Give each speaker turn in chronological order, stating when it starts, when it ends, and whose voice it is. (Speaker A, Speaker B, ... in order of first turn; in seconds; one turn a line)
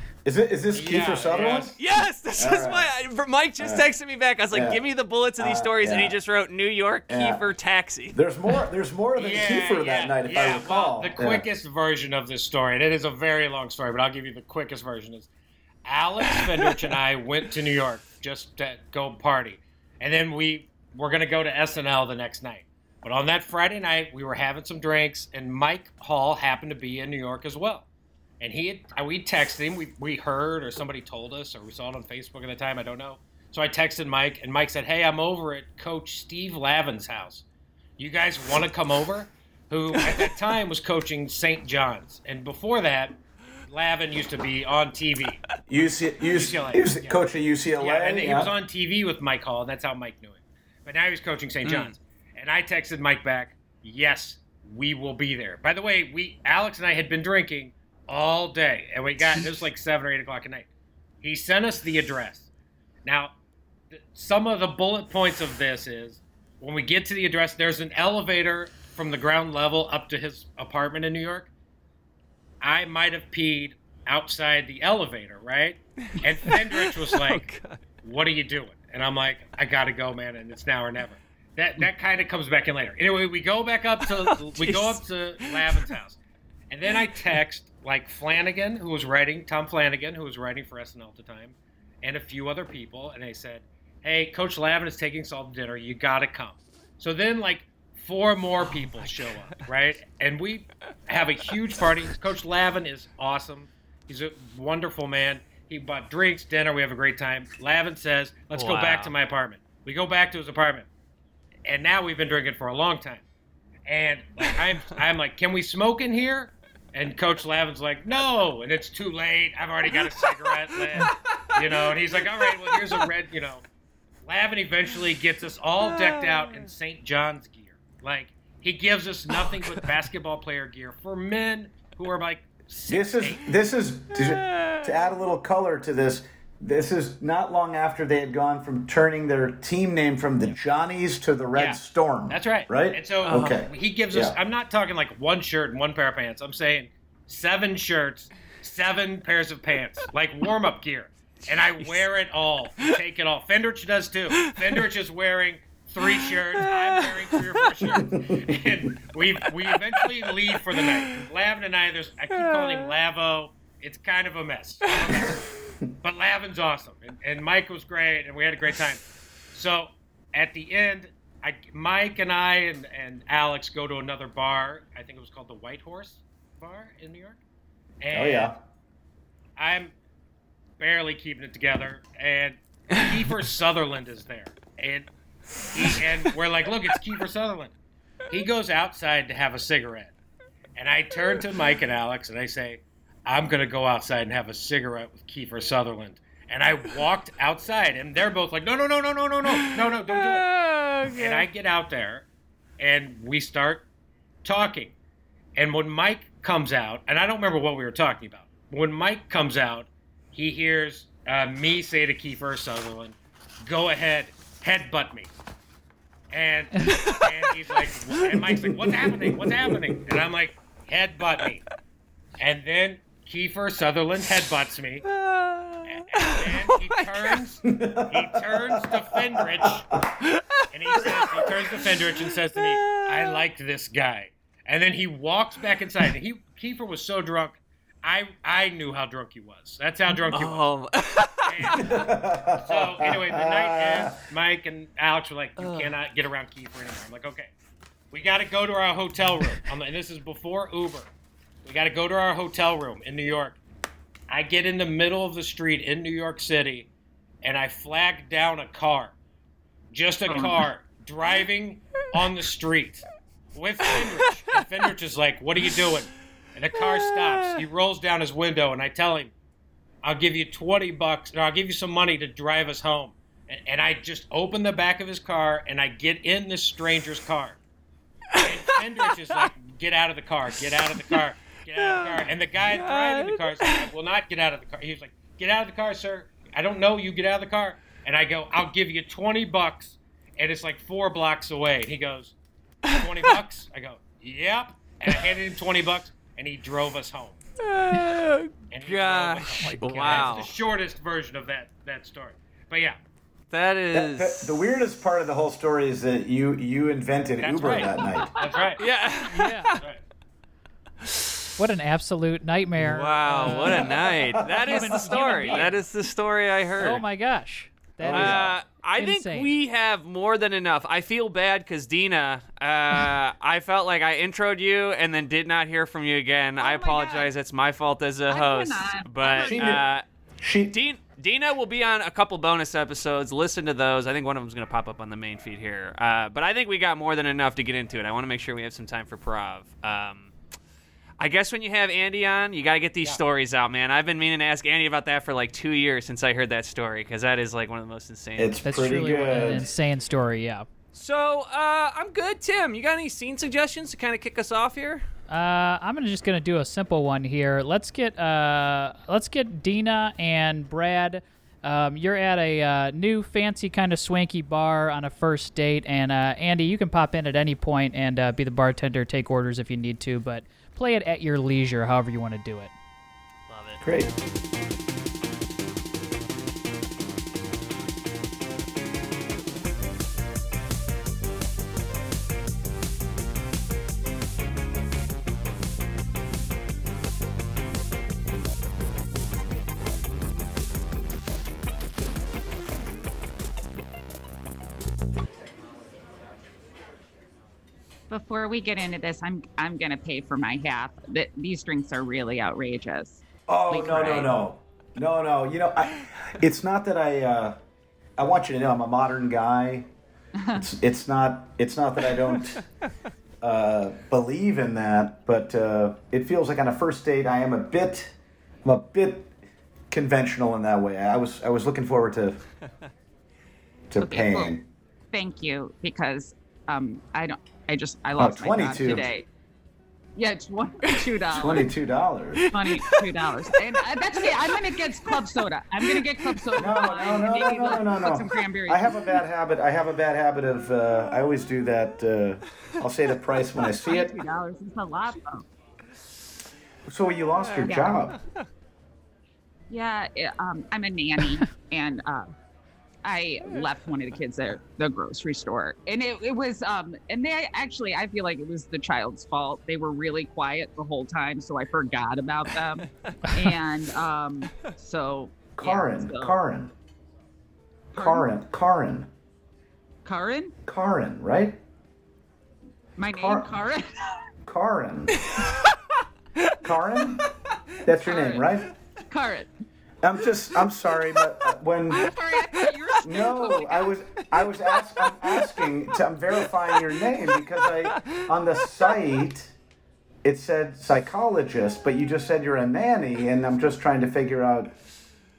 Speaker A: 0.2-1.8
Speaker B: 0.7-1.8
Speaker C: 1.8-8.2
Speaker A: 2.4-2.9
Speaker A: 3.6-3.9
Speaker A: 4.5-4.8
Speaker A: 5.4-6.2
Speaker A: 7.1-7.5
Speaker A: 8.1-11.5
Speaker B: 9.2-15.3
Speaker B: 15.8-27.9
Speaker B: 28.4-37.4
Speaker B: 38.0-45.4
Speaker C: 40.0-40.3
Speaker A: 45.7-48.5
Speaker B: 46.3-47.2
Speaker B: 47.8-60.7
Speaker C: 51.7-51.9
Speaker B: 61.2-62.5
Speaker B: 63.0-63.4
Speaker B: 63.9-71.5
Speaker B: 72.6-77.5
Speaker C: 76.5-77.8
Speaker B: 78.0-86.2
Speaker C: 84.1-85.9
Speaker B: 86.7-110.9
Speaker C: 98.9-99.3
Speaker C: 108.5-109.1
Speaker B: 111.7-113.2
Speaker B: 113.9-123.6
Speaker C: 120.9-121.9
Speaker B: 124.2-133.5
Speaker C: 125.8-126.1
Speaker C: 129.3-129.7
Speaker A: 132.9-144.4
Speaker C: 134.2-134.9
Speaker B: 141.5-165.5
Speaker C: 143.2-143.6
Speaker C: 156.0-158.1
Speaker A: 158.0-158.5
Speaker C: 160.1-161.2
Speaker C: 162.3-162.9
Speaker B: 166.0-177.4
Speaker B: 178.0-178.6
Speaker A: 178.1-178.6
Speaker B: 179.6-179.9
Speaker B: 180.8-185.1
Speaker B: 185.7-187.7
Speaker B: 188.3-190.1
Speaker B: 190.8-200.5
Speaker C: 199.5-201.5
Speaker B: 201.1-202.2
Speaker B: 202.8-203.8
Speaker B: 204.4-204.9
Speaker B: 205.6-215.3
Speaker B: 216.3-221.6
Speaker C: 216.9-217.3
Speaker B: 222.4-225.1
Speaker C: 225.1-227.4
Speaker B: 225.9-230.0
Speaker A: 227.7-230.1
Speaker C: 230.2-230.5
Speaker B: 230.7-240.7
Speaker A: 231.0-231.7
Speaker C: 232.6-233.4
Speaker C: 240.2-242.0
Speaker B: 241.5-247.5
Speaker A: 241.7-244.2
Speaker C: 245.6-245.9
Speaker B: 248.1-251.1
Speaker B: 251.6-253.6
Speaker B: 254.3-256.9
Speaker B: 257.4-259.1
Speaker B: 259.9-269.3
Speaker D: 260.3-260.6
Speaker C: 266.8-267.6
Speaker B: 270.0-277.6
Speaker B: 278.4-292.4
Speaker C: 281.8-283.8
Speaker B: 292.9-297.4
Speaker C: 297.6-300.5
Speaker B: 298.7-303.0
Speaker E: 299.6-300.5
Speaker C: 303.5-304.5
Speaker A: 303.9-308.3
Speaker B: 307.4-308.8
Speaker C: 308.8-309.8
Speaker E: 309.3-309.8
Speaker E: 311.6-314.0
Speaker C: 312.8-317.1
Speaker A: 314.0-315.2
Speaker E: 314.6-315.8
Speaker B: 315.2-315.7
Speaker E: 316.8-319.5
Speaker A: 318.0-318.5
Speaker C: 318.1-330.1
Speaker D: 326.6-327.3
Speaker D: 328.3-329.6
Speaker A: 329.4-329.9
Speaker A: 330.4-330.8
Speaker C: 330.7-340.3
Speaker C: 341.2-348.6
Speaker A: 348.4-349.7
Speaker E: 348.6-350.7
Speaker C: 350.9-355.1
Speaker E: 355.3-372.7
Speaker C: 373.5-373.8
Speaker A: 373.8-374.1
Speaker D: 398.1-404.4
Speaker A: 403.5-407.6
Speaker A: 408.2-409.9
Speaker D: 410.4-410.7
Speaker A: 410.5-412.6
Speaker A: 413.4-418.1
Speaker A: 418.6-419.3
Speaker A: 419.9-422.4
Speaker A: 423.9-424.7
Speaker D: 424.0-424.6
Speaker D: 425.1-429.3
Speaker A: 428.2-429.1
Speaker D: 430.2-431.7
Speaker A: 431.3-432.5
Speaker C: 432.4-433.0
Speaker D: 432.5-439.1
Speaker C: 434.2-434.6
Speaker C: 435.9-436.6
Speaker A: 436.6-444.1
Speaker D: 443.8-445.5
Speaker A: 446.9-448.2
Speaker D: 447.6-448.0
Speaker D: 449.7-452.3
Speaker D: 453.0-466.4
Speaker A: 465.6-466.7
Speaker D: 467.9-468.3
Speaker A: 467.9-469.1
Speaker D: 470.1-470.6
Speaker A: 470.7-471.6
Speaker D: 473.0-474.2
Speaker A: 473.1-473.5
Speaker A: 474.5-475.2
Speaker A: 476.6-477.3
Speaker A: 477.8-478.7
Speaker D: 478.0-478.5
Speaker D: 479.1-479.5
Speaker A: 480.0-482.1
Speaker D: 481.9-483.9
Speaker A: 483.0-489.5
Speaker C: 487.9-488.3
Speaker A: 490.2-494.7